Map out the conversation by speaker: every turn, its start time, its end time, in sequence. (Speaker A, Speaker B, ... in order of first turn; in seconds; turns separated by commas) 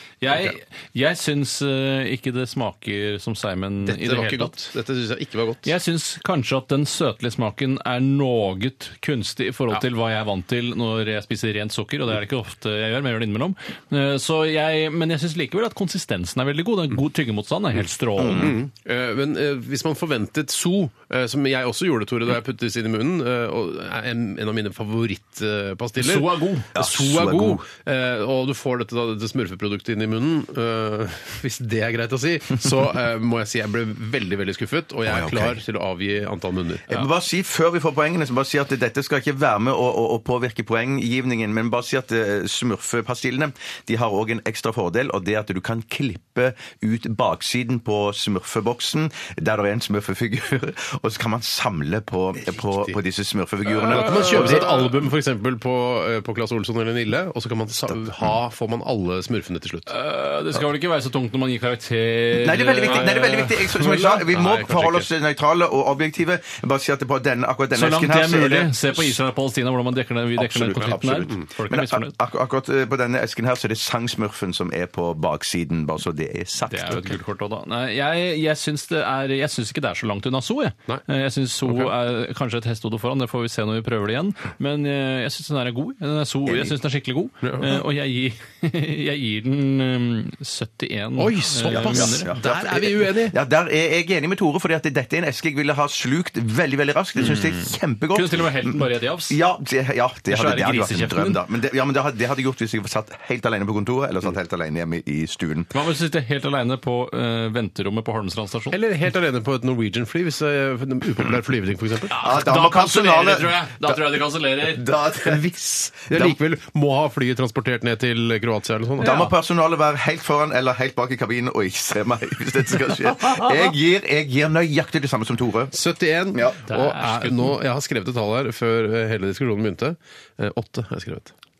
Speaker A: 0.2-4.6, Speaker B: 3.9-5.7, Speaker A: 5.6-18.5, Speaker C: 18.2-18.5, Speaker B: 18.4-37.1, Speaker A: 26.0-26.8, Speaker C: 26.7-27.6, Speaker C: 35.1-35.6, Speaker C: 36.9-54.8, Speaker B: 52.6-52.9, Speaker A: 53.8-54.8, Speaker B: 53.9-59.9, Speaker A: 59.9-64.1, Speaker C: 62.3-69.1, Speaker B: 63.7-65.1, Speaker A: 67.7-72.1, Speaker C: 70.4-77.2, Speaker A: 76.7-92.3, Speaker C: 86.5-86.7, Speaker B: 87.4-87.8, Speaker B: 91.2-93.4, Speaker C: 91.7-105.7, Speaker A: 97.2-99.4, Speaker A: 100.3-101.4, Speaker A: 105.7-108.8, Speaker B: 108.7-112.1, Speaker A: 112.1-114.8, Speaker C: 112.2-114.0, Speaker C: 114.6-116.4, Speaker B: 116.1-119.2, Speaker A: 119.0-119.3, Speaker C: 119.0-125.7, Speaker B: 125.7-131.3, Speaker A: 126.7-127.5